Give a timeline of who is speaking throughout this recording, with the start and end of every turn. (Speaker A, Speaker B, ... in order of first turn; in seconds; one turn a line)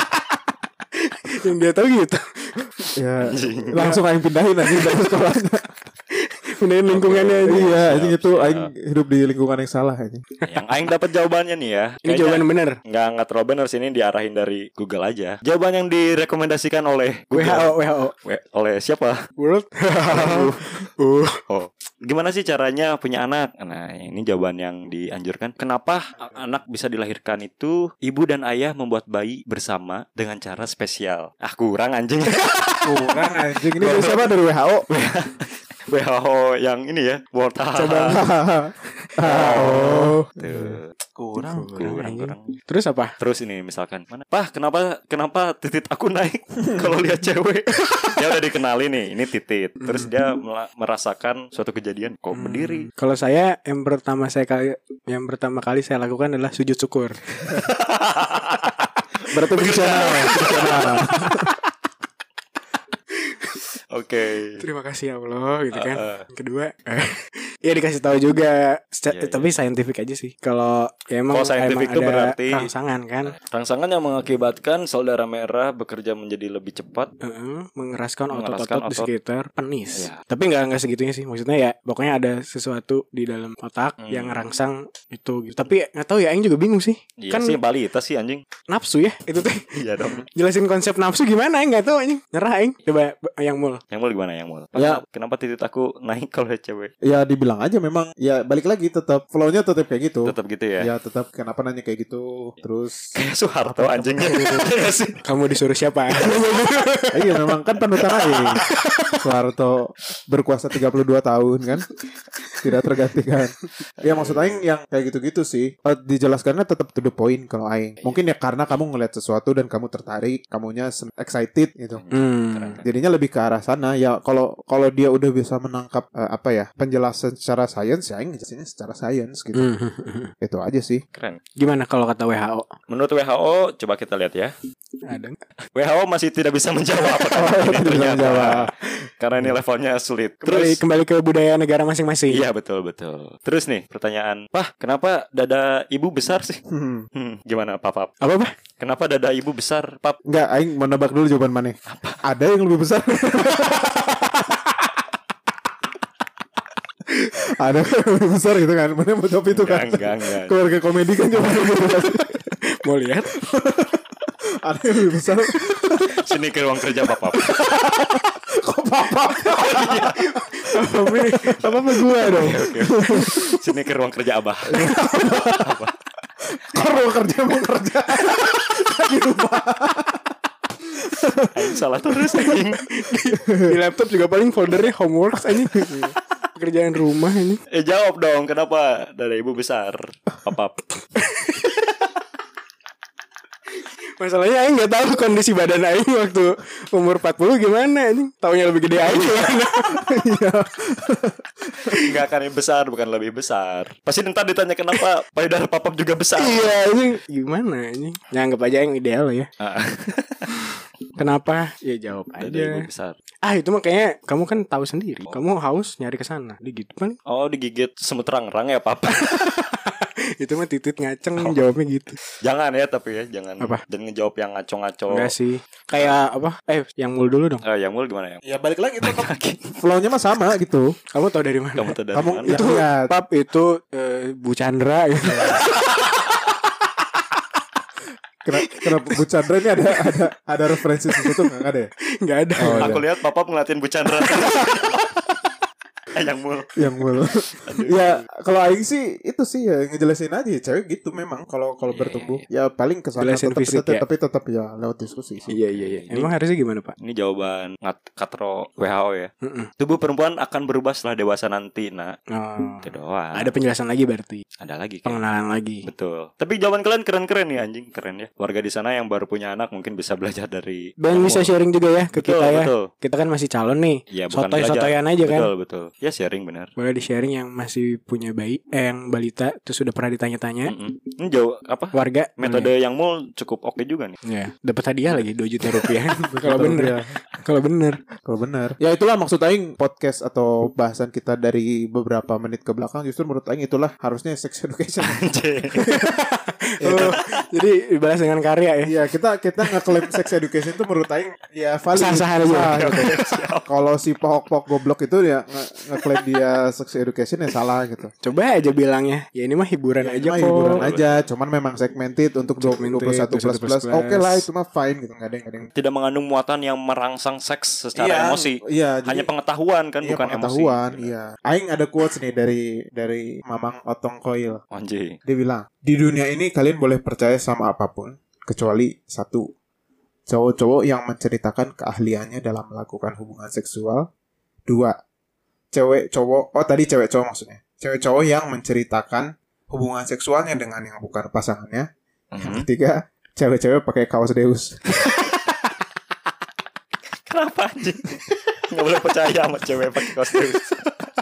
Speaker A: 1.0-2.7
Speaker B: 3.0-5.7
Speaker C: 3.2-4.0
Speaker A: 3.7-4.0
Speaker A: 6.1-7.7
Speaker C: 6.9-8.7
Speaker B: 7.5-10.2
Speaker C: 10.4-19.3
Speaker A: 12.0-12.8
Speaker A: 17.3-18.1
Speaker A: 19.4-21.4
Speaker C: 20.1-20.9
Speaker C: 21.5-33.2
Speaker B: 32.8-34.9
Speaker C: 33.8-34.3
Speaker C: 34.9-38.2
Speaker A: 37.8-38.2
Speaker B: 38.0-40.7
Speaker C: 39.2-42.5
Speaker A: 39.3-40.3
Speaker A: 41.4-43.1
Speaker C: 43.2-52.9
Speaker A: 49.8-50.1
Speaker A: 52.3-57.2
Speaker C: 57.5-61.3
Speaker B: 59.3-61.5
Speaker A: 59.6-61.5
Speaker C: 63.9-64.6
Speaker A: 64.6-73.3
Speaker C: 65.7-66.2
Speaker C: 69.1-69.5
Speaker C: 71.3-72.7
Speaker C: 73.3-77.1
Speaker A: 77.2-87.6
Speaker C: 78.3-79.1
Speaker C: 84.0-84.5
Speaker C: 87.2-88.4
Speaker A: 88.7-89.7
Speaker C: 89.4-90.2
Speaker A: 90.3-93.8
Speaker C: 93.9-96.9
Speaker B: 94.8-95.0
Speaker B: 97.0-103.2
Speaker C: 100.2-100.9
Speaker C: 103.1-105.2
Speaker B: 103.8-104.4
Speaker A: 104.1-104.7
Speaker A: 105.2-107.5
Speaker C: 106.2-106.5
Speaker B: 107.1-111.9
Speaker B: 112.6-122.0
Speaker C: 114.0-114.6
Speaker C: 121.9-122.8
Speaker A: 122.1-122.8
Speaker B: 122.8-129.7
Speaker A: 129.5-130.3
Speaker B: 130.4-131.0
Speaker C: 131.1-131.4
Speaker A: 131.6-132.7
Speaker C: 132.9-134.5
Speaker A: 135.1-135.4
Speaker C: 135.7-140.8
Speaker B: 137.2-138.7
Speaker A: 140.4-142.4
Speaker C: 142.3-146.6
Speaker B: 146.7-147.1
Speaker C: 147.1-148.1
Speaker A: 148.2-148.5
Speaker C: 148.8-150.2
Speaker B: 150.2-154.3
Speaker C: 151.9-152.2
Speaker B: 157.1-162.5
Speaker C: 159.5-160.6
Speaker A: 162.1-163.3
Speaker B: 163.3-164.0
Speaker B: 164.6-166.3
Speaker C: 166.1-167.5
Speaker B: 167.2-173.6
Speaker C: 169.5-170.2
Speaker A: 170.3-172.6
Speaker C: 172.2-175.9
Speaker B: 174.7-175.8
Speaker B: 176.5-180.2
Speaker B: 181.1-181.7
Speaker C: 181.5-182.8
Speaker A: 182.3-187.6
Speaker B: 183.5-183.7
Speaker B: 185.7-186.1
Speaker C: 187.7-190.8
Speaker A: 191.3-191.7
Speaker A: 194.2-200.2
Speaker B: 199.9-202.0
Speaker C: 201.9-206.7
Speaker A: 206.4-209.5
Speaker C: 209.6-210.4
Speaker A: 211.2-212.9
Speaker C: 212.4-213.2
Speaker A: 213.4-217.2
Speaker C: 217.2-219.4
Speaker A: 219.2-222.2
Speaker C: 221.4-221.7
Speaker C: 222.4-225.3
Speaker A: 225.1-227.6
Speaker C: 227.6-228.4
Speaker B: 228.4-230.9
Speaker C: 229.0-229.7
Speaker A: 231.1-231.9
Speaker C: 231.8-232.6
Speaker B: 232.1-233.1
Speaker A: 232.5-235.6
Speaker B: 235.2-235.6
Speaker B: 238.4-241.9
Speaker A: 238.6-239.2
Speaker A: 239.8-240.1
Speaker A: 241.1-241.6
Speaker A: 242.2-243.0
Speaker B: 242.6-243.0
Speaker C: 242.6-245.0
Speaker A: 244.2-244.8
Speaker C: 246.1-246.7
Speaker B: 246.8-255.6
Speaker C: 247.6-248.2
Speaker C: 251.9-252.4
Speaker A: 253.2-254.0
Speaker A: 255.5-256.9
Speaker C: 255.7-256.3
Speaker C: 257.0-262.2
Speaker A: 259.4-259.7
Speaker A: 262.3-264.4
Speaker C: 262.8-263.5
Speaker C: 264.6-265.2
Speaker A: 265.0-265.9
Speaker C: 265.8-271.6
Speaker A: 271.0-275.5
Speaker C: 272.1-272.9
Speaker C: 274.1-276.7
Speaker A: 276.8-280.7
Speaker C: 280.6-284.2
Speaker A: 281.9-282.7
Speaker A: 284.2-288.0
Speaker C: 285.6-285.9
Speaker B: 286.4-287.1
Speaker B: 288.2-296.1
Speaker C: 295.0-295.9
Speaker A: 296.3-298.9
Speaker B: 296.8-297.2
Speaker C: 297.0-297.4
Speaker B: 298.8-308.1
Speaker A: 301.9-303.1
Speaker C: 302.8-303.7
Speaker A: 308.2-310.8
Speaker B: 310.0-315.7
Speaker C: 310.8-311.2
Speaker A: 312.6-314.5
Speaker C: 315.7-321.1
Speaker B: 317.9-319.3
Speaker B: 320.0-324.6
Speaker C: 324.7-325.2
Speaker B: 325.2-329.5
Speaker B: 330.3-334.1
Speaker B: 334.7-335.0
Speaker B: 335.7-341.9
Speaker C: 342.3-342.7
Speaker B: 342.4-345.3
Speaker C: 347.2-350.8